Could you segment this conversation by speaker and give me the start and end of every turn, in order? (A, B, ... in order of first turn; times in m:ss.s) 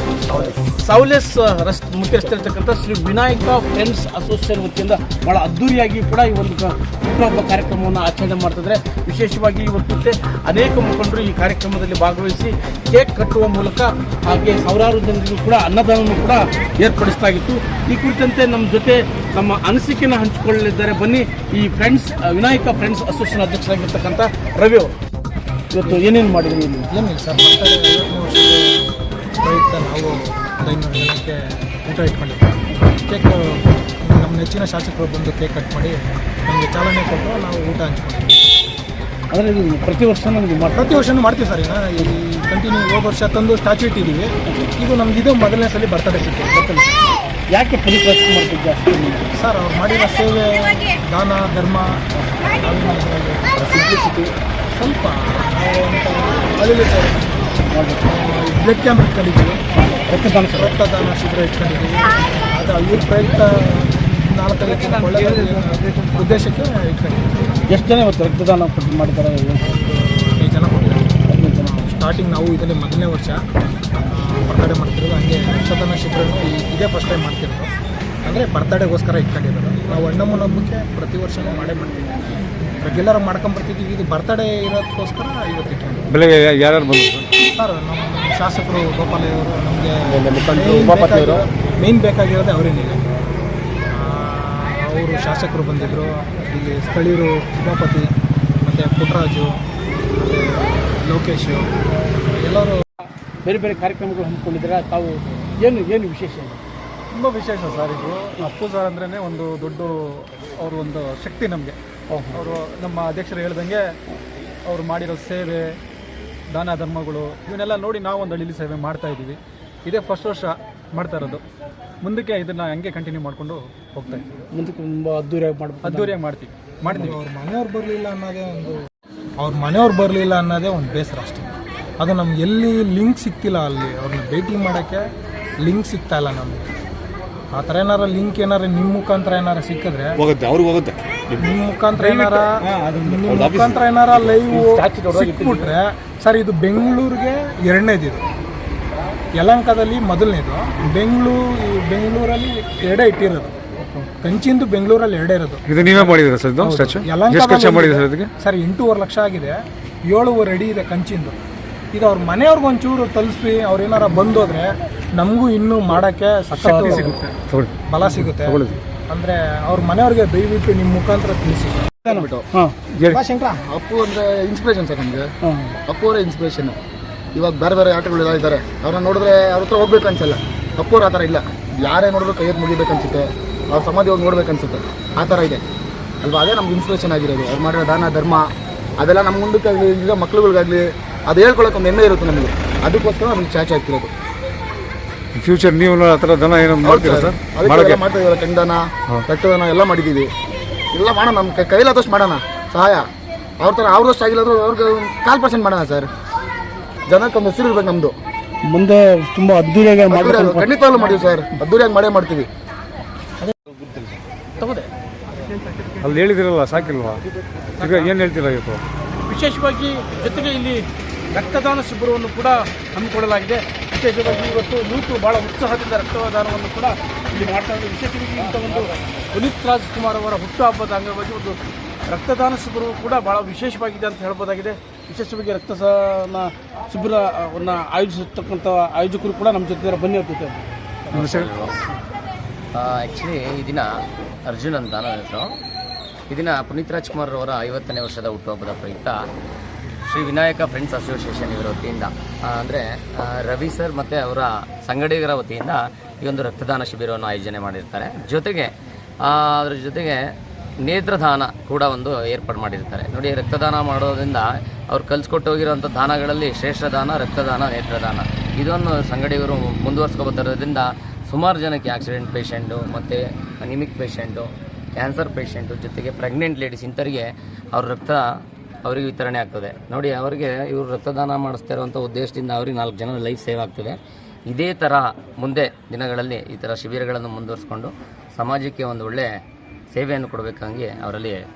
0:00.3-0:24.9 A
0:25.7-0:26.9 A
0:26.9-0:38.4 B
0:39.3-0:41.0 A
0:40.7-0:46.5 B
0:46.5-0:46.9 A
0:47.5-0:49.3 A
0:49.3-0:53.9 B
0:53.6-0:54.3 A
0:54.7-0:57.4 B
0:57.7-0:58.0 A
0:58.1-0:59.6 B
1:00.1-1:00.8 A
1:00.6-1:07.6 B
1:07.7-1:09.6 A
1:09.6-1:11.2 B
1:11.3-1:11.9 A
1:11.8-1:13.4 B
1:14.0-1:17.7 B
1:18.2-1:26.1 B
1:26.1-1:27.3 C
1:27.5-1:33.0 B
1:30.1-1:31.4 D
1:33.9-1:38.1 B
1:38.6-1:39.5 B
1:40.2-1:41.7 B
1:42.3-1:42.8 B
1:43.4-1:46.6 A
1:47.1-1:51.8 E
1:52.1-1:52.4 A
1:52.3-1:53.8 E
1:54.7-1:55.8 E
1:56.5-2:01.4 E
2:02.0-2:04.2 E
2:04.5-2:06.2 A
2:05.8-2:07.2 E
2:06.8-2:08.8 B
2:09.4-2:15.0 B
2:15.6-2:16.7 B
2:17.5-2:20.2 B
2:20.2-2:21.5 C
2:21.4-2:28.2 B
2:22.0-2:23.2 A
2:23.4-2:23.7 C
2:24.5-2:25.7 A
2:29.4-2:33.5 B
2:33.8-2:34.0 A
2:34.2-2:41.3 B
2:35.7-2:38.3 C
2:41.9-2:47.2 B
2:46.5-2:47.2 A
2:46.9-2:48.8 C
2:47.9-2:51.9 B
2:52.0-2:52.7 A
2:52.1-2:52.4 D
2:52.9-2:53.2 C
2:53.1-2:53.6 B
2:53.7-2:55.3 D
2:55.4-2:55.8 A
2:55.9-2:56.8 D
2:57.3-3:05.6 D
3:06.2-3:08.5 D
3:09.0-3:14.1 D
3:15.3-3:18.0 C
3:16.8-3:20.3 D
3:20.9-3:23.0 D
3:23.6-3:26.1 D
3:27.1-3:28.1 D
3:28.6-3:31.2 A
3:30.1-3:32.5 D
3:34.6-3:34.9 A
3:36.0-3:37.2 C
3:37.8-3:38.8 C
3:37.8-3:38.1 A
3:39.2-3:51.6 A
3:52.1-4:00.6 A
4:01.1-4:01.5 C
4:01.1-4:01.8 F
4:02.7-4:03.9 F
4:04.5-4:05.5 F
4:06.3-4:09.2 F
4:10.0-4:18.7 F
4:19.2-4:20.2 F
4:20.8-4:38.2 F
4:38.8-4:44.0 F
4:44.5-4:49.3 F
4:49.9-4:51.4 F